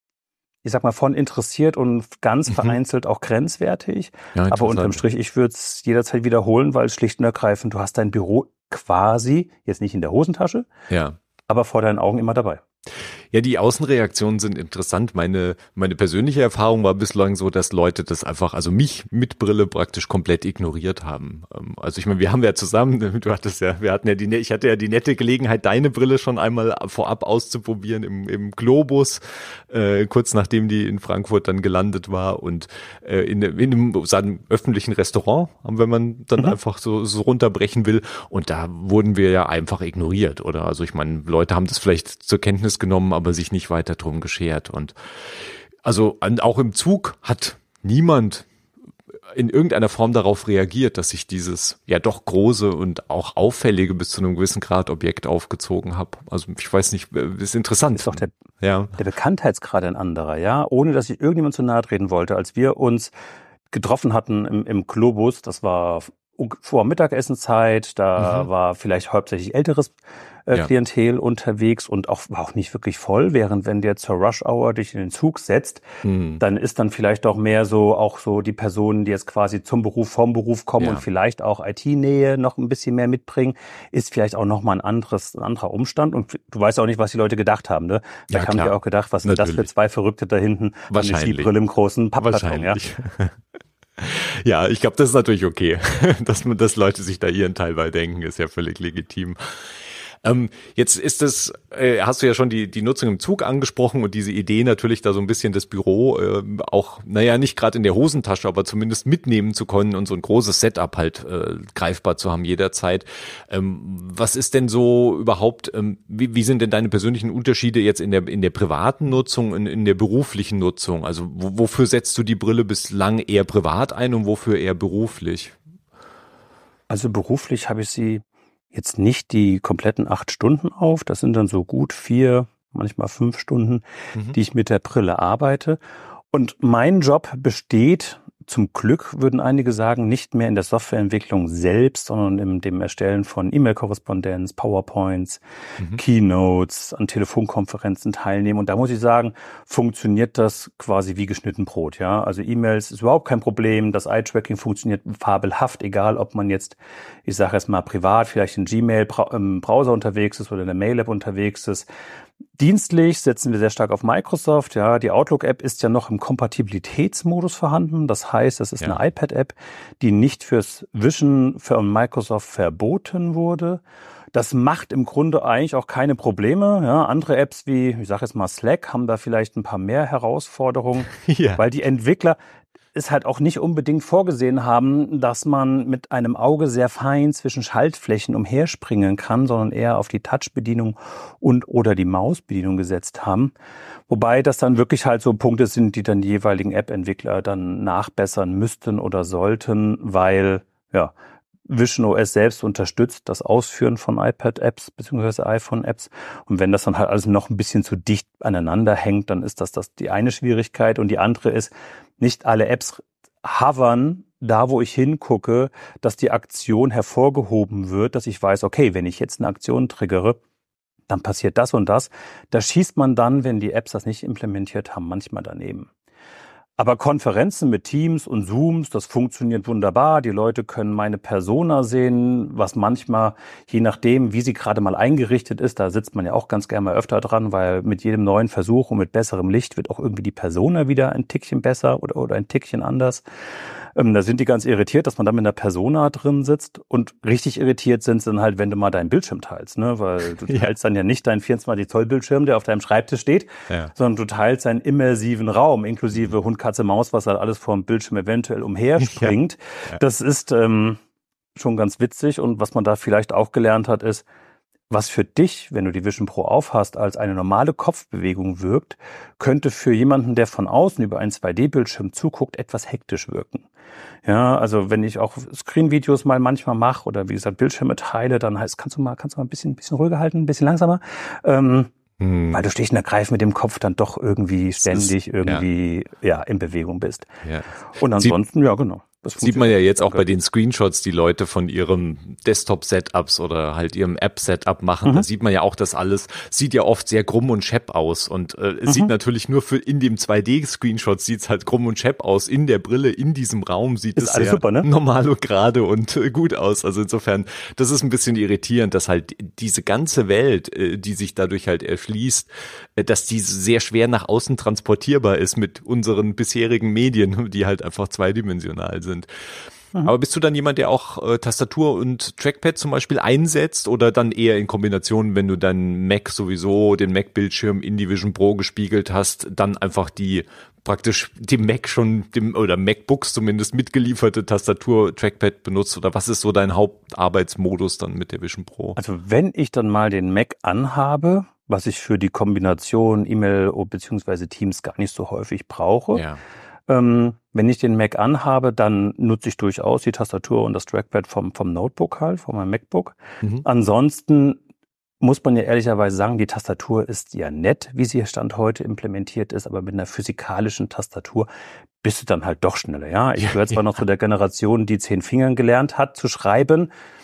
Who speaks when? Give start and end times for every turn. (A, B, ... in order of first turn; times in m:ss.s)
0:00.6-0:10.7 A
0:04.3-0:05.0 B
0:10.9-0:11.2 B
0:11.5-0:12.6 A
0:13.3-0:45.0 B
0:45.8-0:48.5 B
0:49.3-0:59.0 B
0:58.0-0:58.3 A
0:59.0-1:03.1 A
1:03.7-1:15.8 A
1:08.2-1:08.5 B
1:16.0-1:16.4 B
1:16.4-1:32.8 A
1:28.3-1:29.6 B
1:30.9-1:31.5 B
1:32.2-1:33.4 B
1:34.0-1:39.4 B
1:40.2-2:05.6 B
2:06.9-2:15.8 A
2:16.3-2:25.4 A
2:25.9-2:41.9 A
2:42.6-2:53.8 A
2:54.3-3:02.4 A
3:01.1-3:01.6 B
3:02.9-3:13.5 A
3:14.1-3:21.1 A
3:21.7-3:40.4 A
3:41.1-3:45.9 A
3:46.8-4:03.2 A
4:03.9-4:21.0 A
4:19.0-4:19.4 B
4:21.6-4:24.2 A
4:24.9-4:33.7 A
4:34.2-4:41.9 A
4:42.2-4:42.6 B
4:42.5-4:47.3 A
4:44.8-4:45.6 B
4:47.4-4:48.4 B
4:48.0-4:50.2 A
4:49.4-5:19.3 B
5:04.2-5:04.9 A
5:20.0-5:39.0 B
5:39.0-5:46.2 A
5:46.1-5:46.4 B
5:46.9-5:54.6 A
5:55.2-6:01.5 A
6:02.0-6:06.9 A
6:03.4-6:03.8 B